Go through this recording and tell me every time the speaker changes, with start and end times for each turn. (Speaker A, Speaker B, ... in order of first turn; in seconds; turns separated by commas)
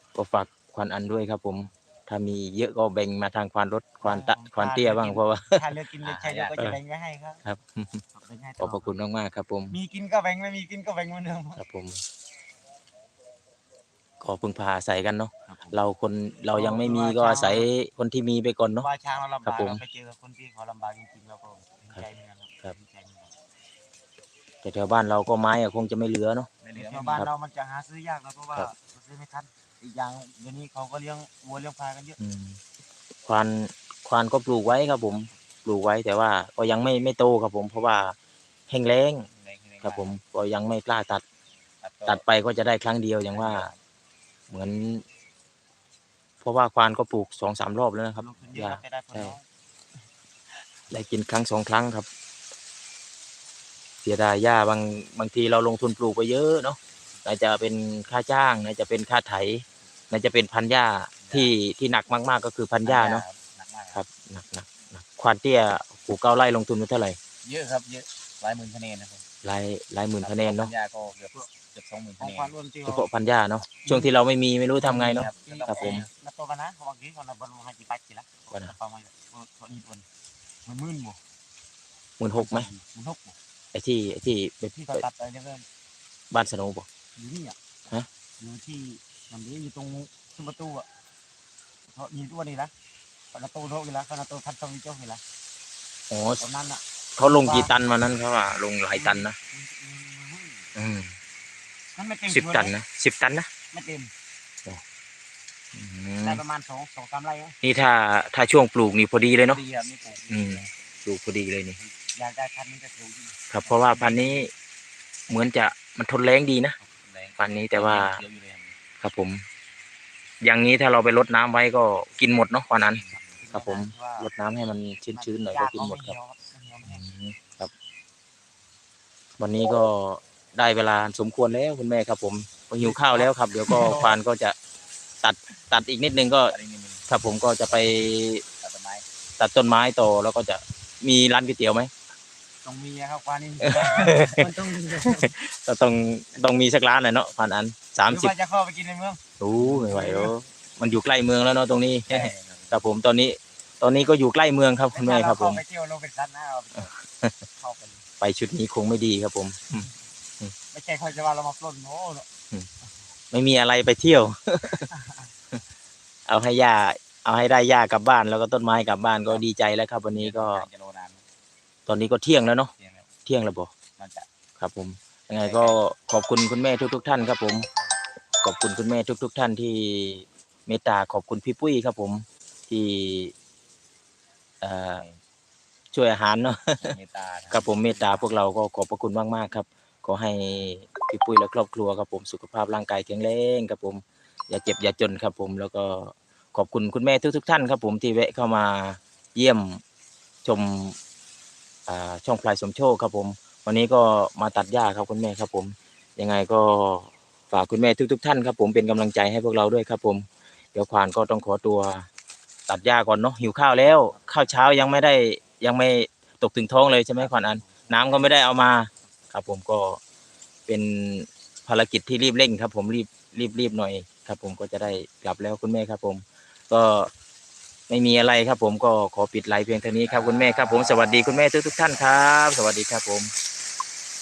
Speaker A: 0.1-5.8, Speaker B: 4.0-7.4, Speaker C: 6.0-6.6, Speaker A: 7.5-8.0, Speaker B: 8.1-8.9, Speaker A: 8.6-9.8, Speaker B: 9.7-11.6, Speaker A: 11.6-12.0, Speaker A: 14.2-18.9, Speaker B: 16.5-17.7, Speaker B: 18.8-23.3, Speaker A: 19.4-19.8, Speaker A: 24.6-26.5, Speaker C: 26.6-27.3, Speaker B: 26.8-32.2, Speaker A: 32.2-32.6, Speaker A: 33.3-38.1, Speaker A: 38.7-39.3, Speaker C: 39.3-40.1, Speaker A: 39.8-41.2, Speaker C: 41.8-42.3, Speaker A: 42.1-43.7, Speaker C: 43.3-43.8, Speaker A: 44.5-45.0, Speaker A: 46.4-49.4, Speaker B: 48.2-49.4, Speaker C: 48.2-48.7, Speaker A: 50.9-52.1, Speaker A: 54.0-63.2, Speaker C: 61.2-61.5, Speaker C: 62.8-64.0, Speaker A: 63.9-67.2, Speaker C: 67.4-69.3, Speaker A: 69.4-70.7, Speaker C: 70.2-72.5, Speaker B: 72.2-73.0, Speaker A: 72.9-76.0, Speaker B: 73.8-74.1, Speaker C: 74.8-76.1, Speaker B: 74.8-80.1, Speaker B: 80.6-81.2, Speaker A: 82.2-82.7, Speaker B: 82.4-83.3, Speaker A: 83.7-85.1, Speaker B: 84.8-85.7, Speaker A: 86.3-86.9, Speaker B: 87.2-87.6, Speaker B: 88.4-90.9, Speaker B: 91.9-92.7, Speaker B: 93.3-95.2, Speaker A: 96.1-96.4, Speaker B: 96.4-97.8, Speaker A: 97.2-99.4, Speaker B: 98.9-100.7, Speaker A: 100.8-101.1, Speaker B: 102.0-102.7, Speaker A: 102.3-103.5, Speaker B: 103.7-104.1, Speaker A: 105.8-106.4, Speaker B: 106.2-107.6, Speaker A: 107.6-109.6, Speaker C: 109.4-110.7, Speaker A: 110.3-111.8, Speaker B: 112.1-114.4, Speaker A: 113.5-114.5, Speaker A: 115.3-116.8, Speaker C: 116.8-118.8, Speaker A: 117.4-118.2, Speaker A: 119.0-119.5, Speaker A: 120.4-126.2, Speaker C: 122.9-123.4, Speaker B: 123.4-124.3, Speaker B: 125.1-127.0, Speaker A: 126.8-127.7, Speaker A: 129.4-134.6, Speaker B: 132.8-134.2, Speaker A: 135.2-136.6, Speaker C: 136.5-137.1, Speaker A: 137.1-138.4, Speaker C: 138.6-139.1, Speaker A: 139.4-141.9, Speaker B: 142.6-145.3, Speaker A: 143.6-148.3, Speaker B: 148.1-150.4, Speaker A: 149.4-155.6, Speaker C: 152.1-152.9, Speaker B: 154.9-156.9, Speaker A: 156.8-157.4, Speaker B: 157.6-158.1, Speaker A: 158.2-159.9, Speaker B: 160.7-162.3, Speaker A: 163.3-164.9, Speaker B: 164.9-165.3, Speaker A: 166.3-170.7, Speaker C: 170.1-171.2, Speaker A: 171.9-172.7, Speaker C: 172.8-173.1, Speaker A: 173.2-173.7, Speaker C: 174.0-174.3, Speaker A: 174.6-177.7, Speaker C: 175.3-175.8, Speaker C: 177.5-178.0, Speaker A: 178.4-183.3, Speaker A: 184.6-185.1, Speaker C: 184.9-185.2, Speaker A: 185.9-187.0, Speaker C: 186.8-188.3, Speaker A: 187.5-199.8, Speaker A: 200.4-201.0, Speaker A: 201.9-212.1, Speaker A: 212.7-220.0, Speaker C: 214.1-214.5, Speaker C: 217.2-218.4, Speaker A: 220.7-227.1, Speaker A: 227.9-233.3, Speaker C: 230.0-232.5